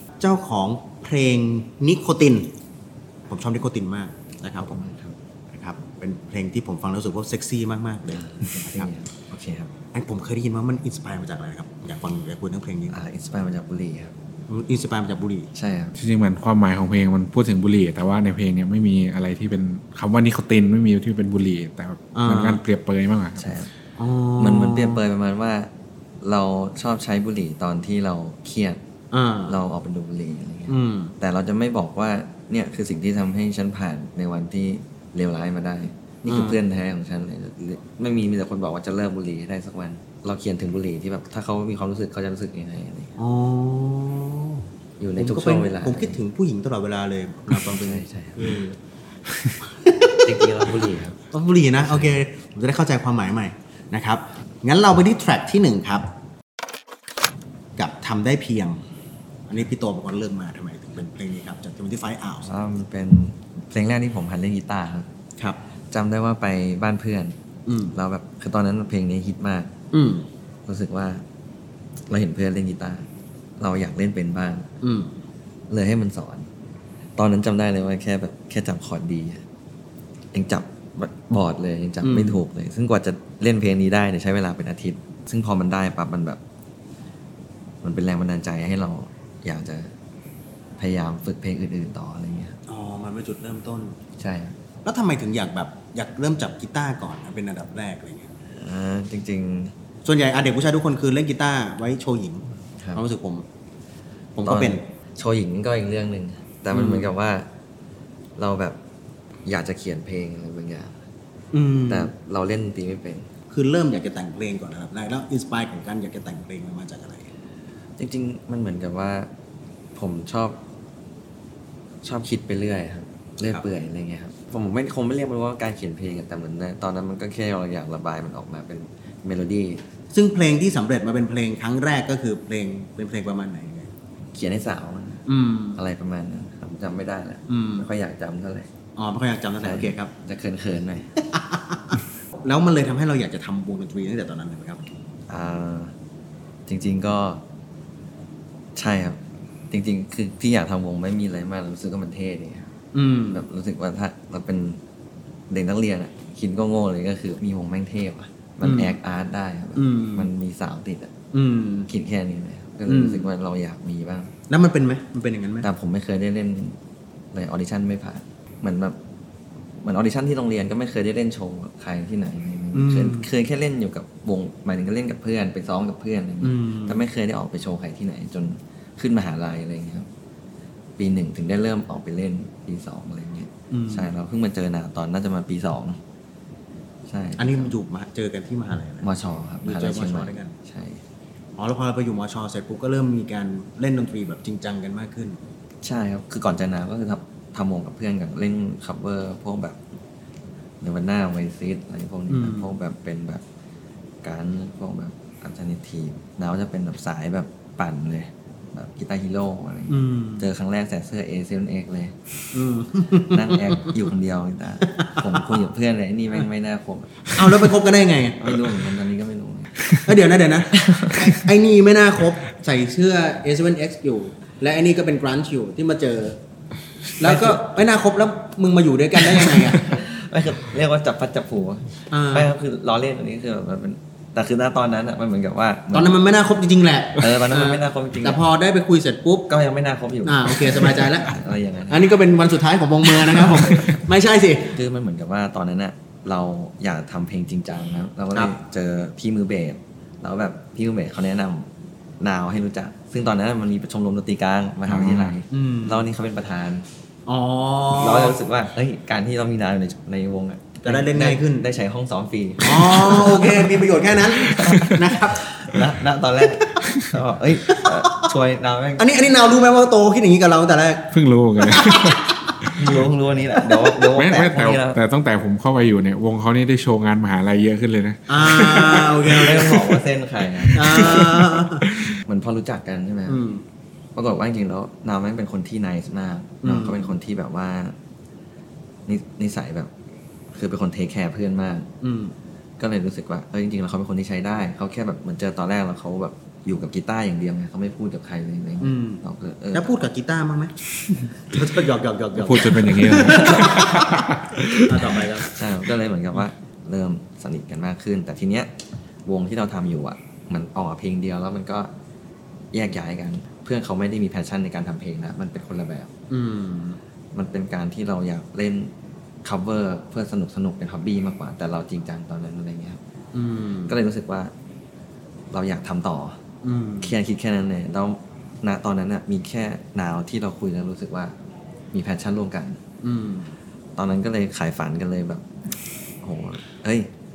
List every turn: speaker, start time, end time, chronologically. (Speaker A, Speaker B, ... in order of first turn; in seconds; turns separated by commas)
Speaker A: 0.2-2.5, Speaker A: 3.3-4.8, Speaker B: 4.6-5.2, Speaker A: 5.5-8.9, Speaker B: 8.1-9.7, Speaker A: 9.9-13.0, Speaker B: 12.9-14.1, Speaker A: 14.5-15.5, Speaker B: 15.5-15.9, Speaker C: 15.9-23.5, Speaker A: 22.1-22.6, Speaker B: 23.4-23.7, Speaker A: 24.0-25.0, Speaker B: 24.4-25.7, Speaker B: 26.2-28.8, Speaker A: 29.1-29.6, Speaker B: 29.5-43.1, Speaker A: 30.7-31.1, Speaker A: 36.2-36.6, Speaker A: 43.2-44.6, Speaker B: 45.0-46.2, Speaker A: 45.2-48.8, Speaker B: 47.5-48.6, Speaker C: 49.3-49.6, Speaker A: 49.7-50.3, Speaker B: 50.2-51.2, Speaker A: 51.3-56.1, Speaker A: 57.8-58.8, Speaker A: 59.5-62.5, Speaker B: 62.4-65.1, Speaker B: 65.9-67.3, Speaker A: 67.7-67.9, Speaker B: 67.9-69.7, Speaker A: 69.9-70.3, Speaker B: 70.7-71.2, Speaker B: 72.1-73.1, Speaker B: 73.6-74.7, Speaker A: 74.8-75.2, Speaker B: 75.7-76.5, Speaker B: 77.2-79.4, Speaker B: 80.3-86.4, Speaker A: 82.0-82.4, Speaker B: 87.8-89.9, Speaker B: 90.8-92.5, Speaker A: 92.7-94.0, Speaker B: 94.2-94.6, Speaker A: 94.8-98.3, Speaker B: 98.5-99.7, Speaker A: 100.0-103.5, Speaker A: 104.3-104.8, Speaker B: 104.4-107.5, Speaker A: 106.7-107.1, Speaker B: 108.4-108.8, Speaker B: 109.5-111.0, Speaker A: 111.5-112.1, Speaker B: 111.9-113.3, Speaker A: 113.5-117.3, Speaker B: 118.0-119.3, Speaker B: 119.9-120.6, Speaker B: 122.0-129.8, Speaker A: 130.1-133.9, Speaker B: 134.3-135.2, Speaker A: 135.3-135.8, Speaker B: 135.7-138.7, Speaker A: 137.5-137.9, Speaker A: 139.0-140.1, Speaker B: 139.6-141.1, Speaker A: 141.3-144.8, Speaker B: 145.3-145.9, Speaker B: 146.7-147.4, Speaker B: 148.8-152.7, Speaker A: 152.9-153.4, Speaker B: 153.3-154.8, Speaker B: 155.5-161.1, Speaker A: 158.6-159.0, Speaker A: 159.7-160.3, Speaker A: 161.3-161.9, Speaker B: 161.9-164.3, Speaker A: 162.9-163.3, Speaker A: 164.5-165.7, Speaker B: 165.6-166.8, Speaker B: 167.3-169.0, Speaker B: 169.8-180.1, Speaker A: 172.7-173.3, Speaker A: 176.4-177.0, Speaker B: 181.0-186.0, Speaker A: 183.7-184.1, Speaker B: 187.1-187.7, Speaker A: 187.4-189.1, Speaker B: 189.0-191.0, Speaker A: 189.6-190.5, Speaker A: 191.6-195.4, Speaker B: 195.8-199.8, Speaker B: 200.8-203.4, Speaker A: 202.3-202.7, Speaker B: 204.2-212.2, Speaker A: 209.9-210.5, Speaker A: 212.5-214.0, Speaker B: 213.2-217.3, Speaker A: 214.9-215.5, Speaker A: 217.3-218.5, Speaker B: 218.4-219.8, Speaker A: 220.0-226.4, Speaker B: 220.7-221.3, Speaker A: 227.2-230.0, Speaker B: 227.2-227.6, Speaker B: 229.8-236.2, Speaker A: 232.1-232.5, Speaker A: 235.9-239.5, Speaker B: 237.2-238.4, Speaker B: 239.5-242.1, Speaker A: 240.2-244.8, Speaker B: 244.7-256.9, Speaker C: 254.9-255.3, Speaker A: 255.5-256.1, Speaker A: 257.2-258.4, Speaker B: 257.9-263.8, Speaker A: 260.8-261.7, Speaker A: 262.6-265.5, Speaker B: 264.3-269.1, Speaker C: 264.5-264.9, Speaker C: 266.8-267.1, Speaker A: 267.6-268.2, Speaker A: 269.0-272.9, Speaker C: 271.1-272.7, Speaker B: 272.8-275.0, Speaker C: 274.1-279.5, Speaker A: 278.3-280.0, Speaker B: 279.1-281.4, Speaker C: 280.7-282.2, Speaker A: 280.7-281.9, Speaker B: 282.2-283.4, Speaker A: 283.3-283.6, Speaker B: 284.1-287.9, Speaker A: 286.6-287.1, Speaker B: 289.1-289.9, Speaker B: 290.5-291.9, Speaker A: 292.0-292.3, Speaker B: 292.8-299.9, Speaker A: 298.8-300.7, Speaker A: 301.3-304.3, Speaker C: 302.4-305.2, Speaker B: 303.2-303.8, Speaker A: 304.8-305.6, Speaker B: 305.1-308.7, Speaker B: 309.2-311.9, Speaker B: 312.7-316.1, Speaker A: 316.3-317.0, Speaker B: 317.3-318.9, Speaker B: 319.4-323.0, Speaker A: 323.3-324.0, Speaker B: 323.9-324.5, Speaker B: 325.5-326.4, Speaker A: 326.6-327.1, Speaker B: 327.0-331.3, Speaker B: 331.9-332.8, Speaker A: 333.0-333.5, Speaker B: 333.9-335.4, Speaker B: 336.2-337.1